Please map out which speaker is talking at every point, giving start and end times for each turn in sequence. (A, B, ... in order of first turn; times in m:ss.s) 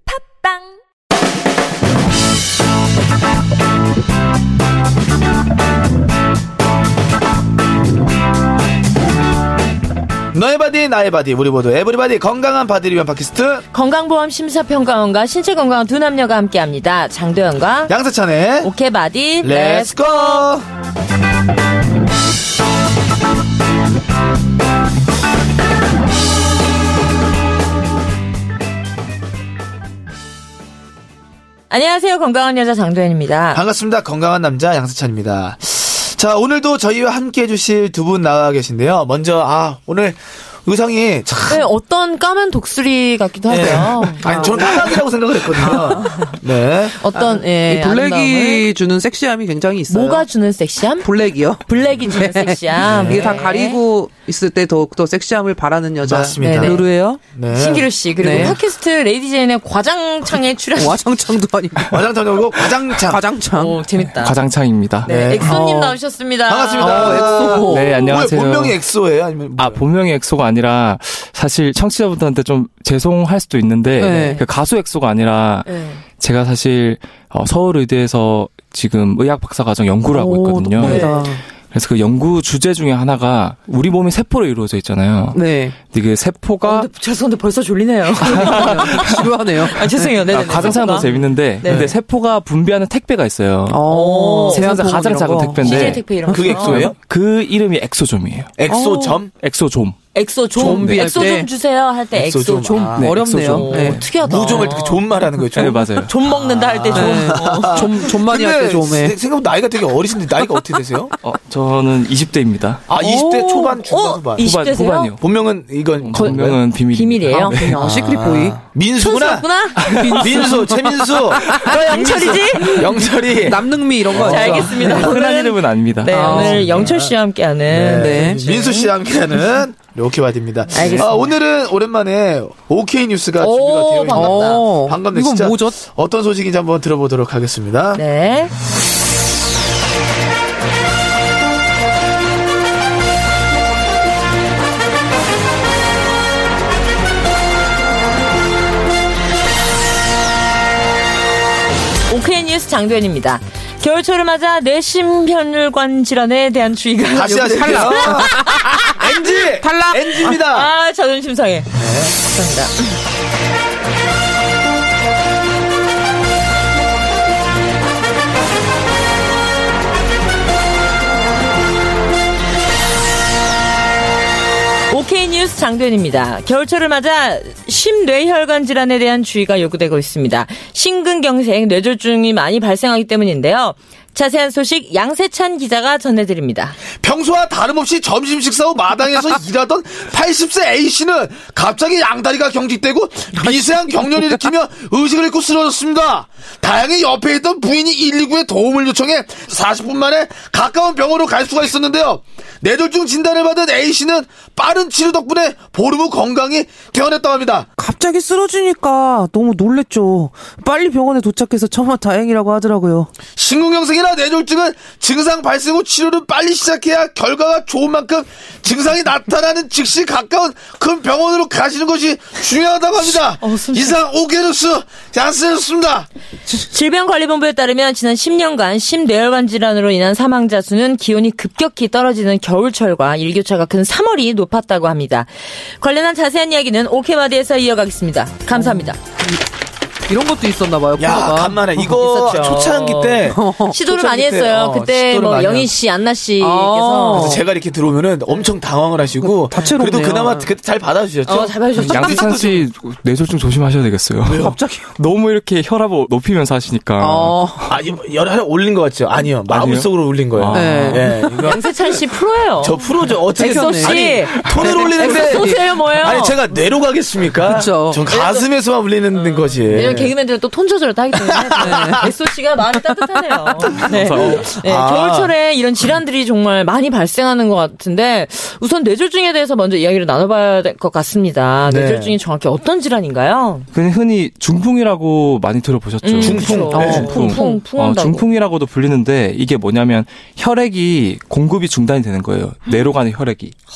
0:10.3-0:13.6 A
0:13.7-0:17.9 B
0:17.9-0:18.7 A
0:18.6-0:20.5 B
0:19.4-0:20.6 A
0:31.7-0:33.6 B
0:33.5-0:41.7 A
0:41.5-0:44.7 B
0:43.5-0:47.0 A
0:44.2-0:45.0 C
0:45.7-0:46.0 C
0:46.0-0:46.3 B
0:47.0-0:48.7 B
0:47.2-0:50.3 C
0:49.9-0:53.8 B
0:51.0-0:57.2 C
0:52.8-0:53.4 A
0:56.0-0:58.6 A
0:56.4-0:56.8 B
0:57.5-1:01.0 B
0:58.2-0:58.5 C
1:00.8-1:02.1 C
1:01.9-1:03.2 A
1:02.9-1:03.8 C
1:03.5-1:04.4 B
1:04.1-1:05.1 D
1:05.0-1:05.5 A
1:05.0-1:07.7 B
1:05.4-1:06.0 C
1:06.5-1:09.8 A
1:06.8-1:08.0 C
1:07.7-1:08.8 D
1:09.6-1:21.1 D
1:14.0-1:14.4 C
1:14.1-1:14.4 B
1:15.6-1:16.0 B
1:20.1-1:21.4 C
1:20.8-1:21.3 B
1:21.7-1:26.9 D
1:25.3-1:25.8 C
1:26.6-1:31.8 B
1:28.2-1:30.6 C
1:28.2-1:29.3 D
1:30.3-1:33.8 D
1:31.6-1:32.0 A
1:33.7-1:36.4 C
1:33.8-1:36.9 B
1:34.5-1:38.5 D
1:36.2-1:37.0 A
1:38.6-1:39.3 A
1:38.7-1:39.2 C
1:39.4-1:40.0 D
1:40.1-1:48.1 B
1:40.6-1:40.9 A
1:40.6-1:41.5 C
1:40.6-1:41.3 D
1:42.1-1:43.2 A
1:43.0-1:44.7 C
1:43.0-1:44.1 D
1:44.2-1:51.1 A
1:45.5-1:46.1 D
1:46.9-1:49.2 C
1:51.2-1:52.9 D
1:52.9-1:54.5 A
1:53.0-1:55.1 B
1:54.4-1:55.2 D
1:55.2-1:56.6 A
1:56.0-1:57.8 D
1:56.1-1:57.7 B
1:57.4-1:58.6 C
1:57.8-2:05.1 A
1:59.0-2:00.5 B
1:59.8-2:00.2 D
1:59.9-2:01.7 C
2:01.6-2:03.0 B
2:02.6-2:05.1 C
2:04.0-2:08.9 B
2:04.8-2:06.8 D
2:06.0-2:06.6 C
2:06.3-2:07.1 A
2:07.7-2:18.0 A
2:07.8-2:08.7 C
2:10.7-2:11.3 B
2:10.7-2:11.1 D
2:13.4-2:14.7 B
2:14.1-2:15.8 C
2:17.9-2:18.5 B
2:32.1-2:39.0 B
2:37.1-2:40.7 A
2:37.3-2:40.3 C
2:40.2-2:43.0 B
2:41.7-2:42.1 A
2:54.9-3:06.8 B
3:07.0-3:27.7 A
3:13.3-3:14.4 C
3:27.8-3:33.1 C
3:33.3-3:46.1 A
3:43.0-3:44.0 B
3:46.5-3:59.0 B
3:58.5-3:59.4 C
4:00.0-4:01.9 C
4:01.0-4:05.7 A
4:01.9-4:07.4 B
4:03.3-4:03.8 C
4:06.4-4:07.4 C
4:07.1-4:12.6 A
4:09.2-4:10.5 C
4:11.2-4:12.4 B
4:11.7-4:17.4 D
4:14.2-4:14.6 A
4:14.4-4:14.9 C
4:17.0-4:17.7 C
4:17.7-4:21.8 A
4:19.5-4:21.1 D
4:20.5-4:21.5 C
4:21.3-4:26.4 B
4:22.6-4:30.1 A
4:23.3-4:25.7 C
4:27.4-4:28.0 C
4:28.0-4:28.5 B
4:29.1-4:43.7 B
4:31.2-4:32.1 A
4:31.6-4:32.0 C
4:33.7-4:35.3 A
4:33.8-4:34.4 D
4:41.6-4:42.2 A
4:43.7-4:53.6 D
4:46.0-4:48.3 B
4:46.2-4:47.1 A
4:46.7-4:47.6 C